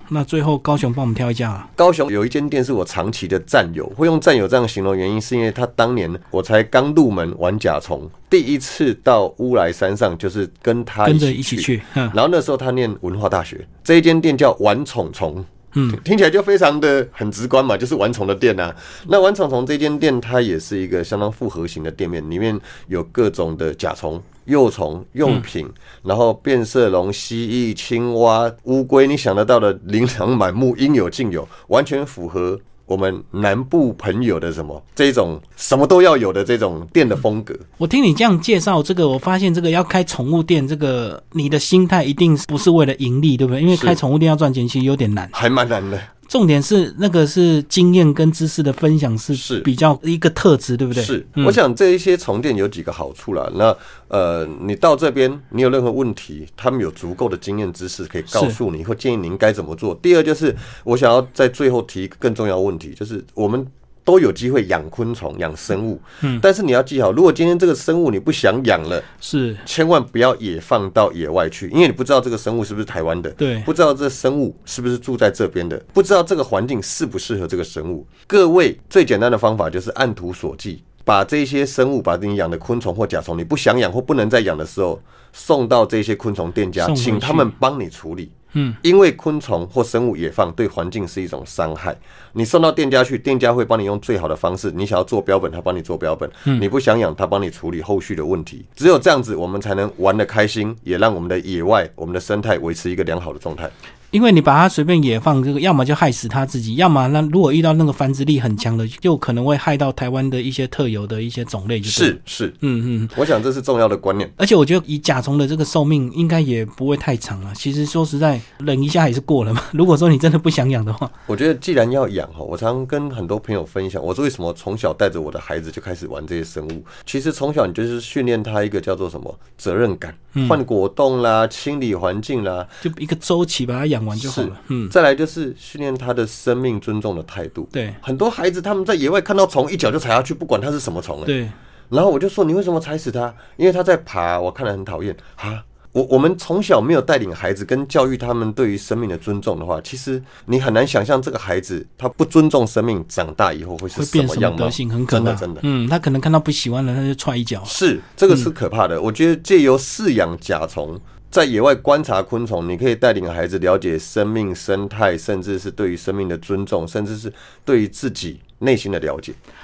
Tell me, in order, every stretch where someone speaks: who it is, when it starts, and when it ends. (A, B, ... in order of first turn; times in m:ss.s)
0:00.1-0:01.7 A
0:01.8-0:37.7 B
0:11.0-0:12.2 A
0:15.7-0:16.0 A
0:37.8-0:45.3 A
0:43.7-0:44.0 B
0:45.3-0:46.1 B
0:46.3-0:51.6 A
0:49.4-0:49.7 B
0:50.9-1:09.1 B
1:09.2-1:09.6 A
1:09.6-1:43.7 B
1:13.4-1:13.7 A
1:26.8-1:27.5 A
1:28.5-1:28.8 A
1:44.1-1:53.2 A
1:51.9-1:52.6 B
1:53.1-1:54.4 B
1:54.4-2:01.1 A
2:01.3-2:12.8 B
2:12.8-2:14.9 A
2:14.2-2:21.3 B
2:17.7-2:18.0 A
2:21.3-2:21.6 A
2:21.9-2:35.6 B
2:34.0-2:37.8 A
2:37.7-2:49.4 B